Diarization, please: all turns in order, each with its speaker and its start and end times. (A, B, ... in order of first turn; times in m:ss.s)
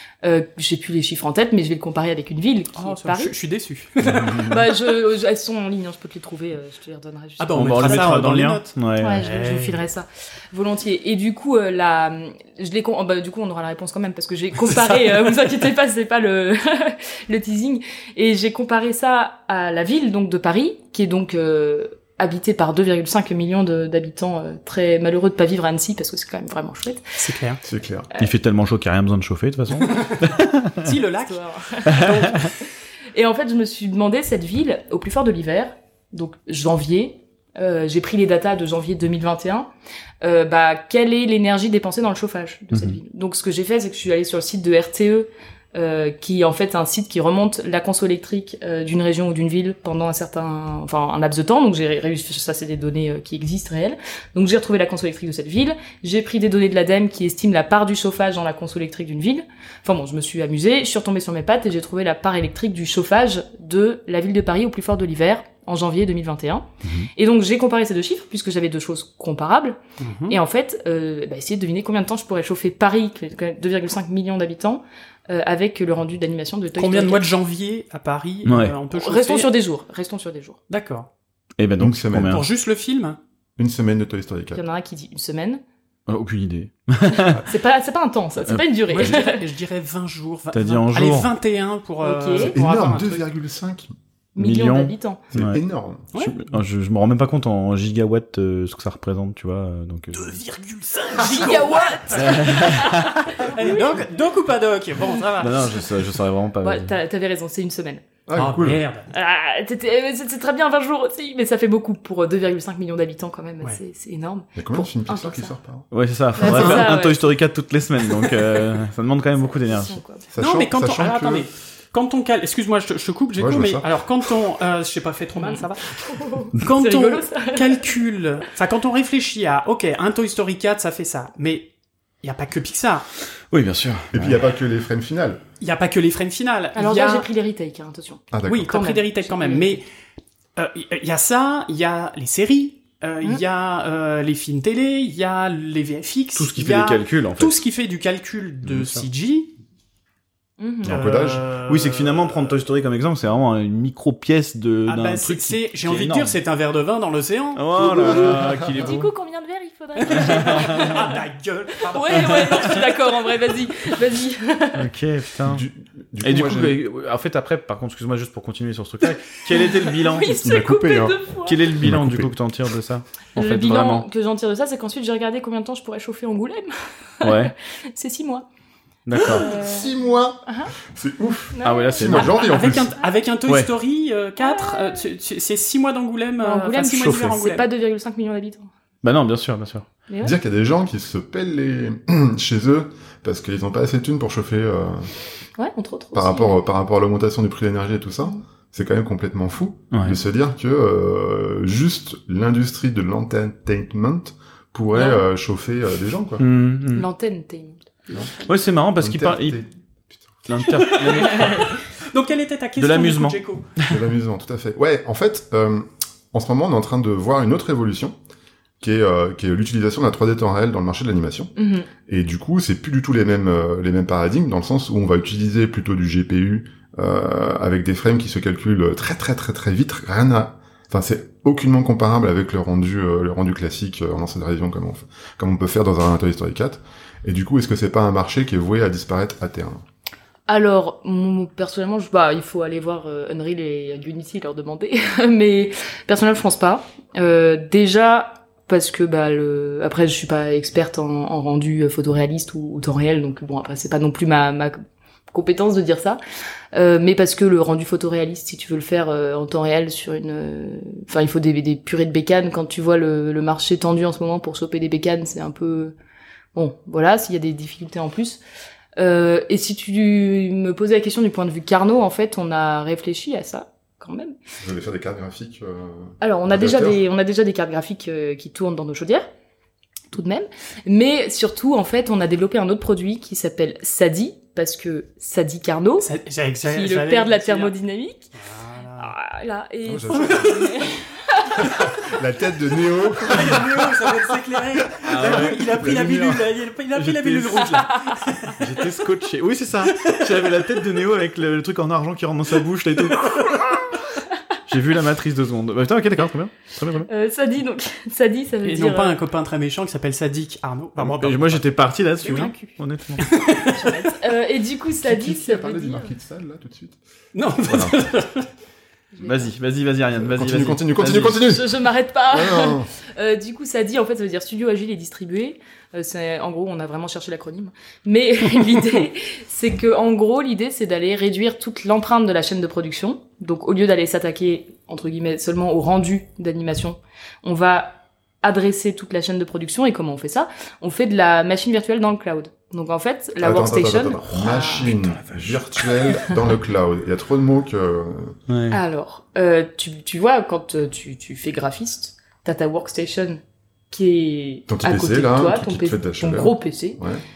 0:00.2-0:03.3 A
0:02.8-0:04.6 B
0:04.1-0:04.5 C
0:04.2-0:08.3 A
0:07.4-0:09.8 B
0:07.5-0:09.2 C
0:09.0-0:27.2 A
0:27.2-0:27.6 B
0:27.6-0:28.1 D
0:28.2-0:30.9 C
0:30.8-0:32.5 B
0:31.2-0:32.4 A
0:33.1-0:39.7 A
0:40.2-1:17.3 A
0:42.7-0:43.0 C
1:06.8-1:07.1 C
1:10.0-1:10.4 B
1:16.8-1:19.5 B
1:18.4-1:18.8 C
1:18.9-1:20.6 A
1:20.7-1:21.1 B
1:21.6-1:22.4 C
1:21.8-1:22.4 D
1:22.3-1:23.2 B
1:23.6-1:24.6 D
1:24.5-1:25.6 A
1:26.1-1:27.4 C
1:27.1-1:29.4 A
1:28.5-1:29.1 C
1:28.9-1:33.2 B
1:30.5-1:31.3 C
1:32.0-1:32.5 A
1:32.4-1:33.9 D
1:34.3-1:35.2 A
1:34.4-1:35.6 C
1:35.3-1:36.1 D
1:36.1-1:36.4 B
1:36.1-1:40.4 C
1:40.1-1:46.0 B
1:41.1-1:44.0 A
1:42.2-1:43.5 C
1:45.4-1:46.9 C
1:46.6-1:48.0 A
1:48.3-1:48.8 D
1:48.3-1:49.1 B
1:49.1-1:55.5 A
1:54.6-1:55.9 D
1:55.9-2:00.0 C
1:56.4-1:57.2 A
1:56.4-1:56.9 B
1:59.4-2:00.3 A
2:00.3-2:01.5 D
2:00.4-2:06.0 B
2:03.4-2:03.9 D
2:05.4-2:07.9 A
2:06.5-2:11.7 B
2:12.2-2:13.1 B
2:13.5-2:14.4 C
2:14.1-2:15.4 D
2:15.6-2:17.3 B
2:16.8-2:19.8 A
2:18.3-2:18.7 D
2:18.5-2:19.8 B
2:20.6-2:29.5 B
2:26.3-2:27.6 C
2:28.7-2:29.0 C
2:30.6-2:30.9 A
2:30.8-2:31.5 D
2:30.8-2:32.6 B
2:31.7-2:36.4 C
2:34.8-2:38.4 B
2:37.6-2:39.1 C
2:37.8-2:41.2 A
2:38.4-2:38.9 D
2:40.0-2:42.9 B
2:40.1-2:41.1 C
2:41.8-2:44.9 A
2:44.7-2:45.6 C
2:45.4-2:46.8 D
2:46.2-2:50.4 C
2:49.5-2:51.7 A
2:50.4-2:51.2 D
2:51.4-2:54.1 C
2:51.8-2:52.3 D
2:53.4-2:58.4 A
2:57.2-2:57.5 C
2:59.0-2:59.5 C
2:59.1-2:59.9 A
2:59.2-3:03.0 D
3:00.4-3:00.7 A
3:01.5-3:02.9 A
3:01.6-3:02.4 C
3:02.2-3:07.6 B
3:04.4-3:05.0 A
3:06.4-3:08.7 A
3:07.0-3:07.4 C
3:09.0-3:09.9 C
3:10.1-3:10.3 A
3:10.2-3:15.1 D
3:15.6-3:16.6 A
3:16.1-3:26.4 D
3:24.9-3:25.2 A
3:26.4-3:27.1 C
3:26.9-3:28.4 A
3:28.4-3:29.6 C
3:29.0-3:30.4 D
3:30.4-3:31.8 C
3:30.7-3:33.7 B
3:31.3-3:31.6 A
3:32.8-3:34.0 C
3:33.8-3:38.1 D
3:38.8-3:59.8 D
3:41.6-3:41.9 A
4:00.5-4:16.2 A
4:16.7-4:25.9 A
4:26.5-4:28.4 A
4:29.0-4:34.4 A
4:34.6-4:37.0 D
4:36.2-4:39.3 A
4:40.1-4:46.1 A
4:46.0-4:47.7 B
4:46.6-4:48.3 A
4:48.4-4:49.1 B
4:49.0-4:51.6 A
4:49.8-4:50.7 D
4:51.6-4:54.1 D
4:53.2-4:58.6 B
4:55.0-4:56.3 C
4:55.2-4:56.5 D
4:57.0-4:57.8 C
4:57.6-4:58.5 A
4:58.6-5:03.9 C
5:04.7-5:07.1 C
5:07.1-5:09.2 A
5:08.6-5:11.7 B
5:11.0-5:13.2 C
5:12.2-5:12.7 A
5:13.2-5:14.0 B
5:13.3-5:16.1 A
5:15.0-5:17.0 D
5:17.3-5:18.4 B
5:17.6-5:18.0 D
5:19.1-5:19.5 A
5:19.2-5:21.4 C
5:20.2-5:22.9 D
5:21.4-5:44.9 A
5:43.4-5:48.4 D
5:44.4-5:45.7 C
5:48.5-5:48.8 C
5:48.7-5:57.0 A
5:54.7-5:57.2 D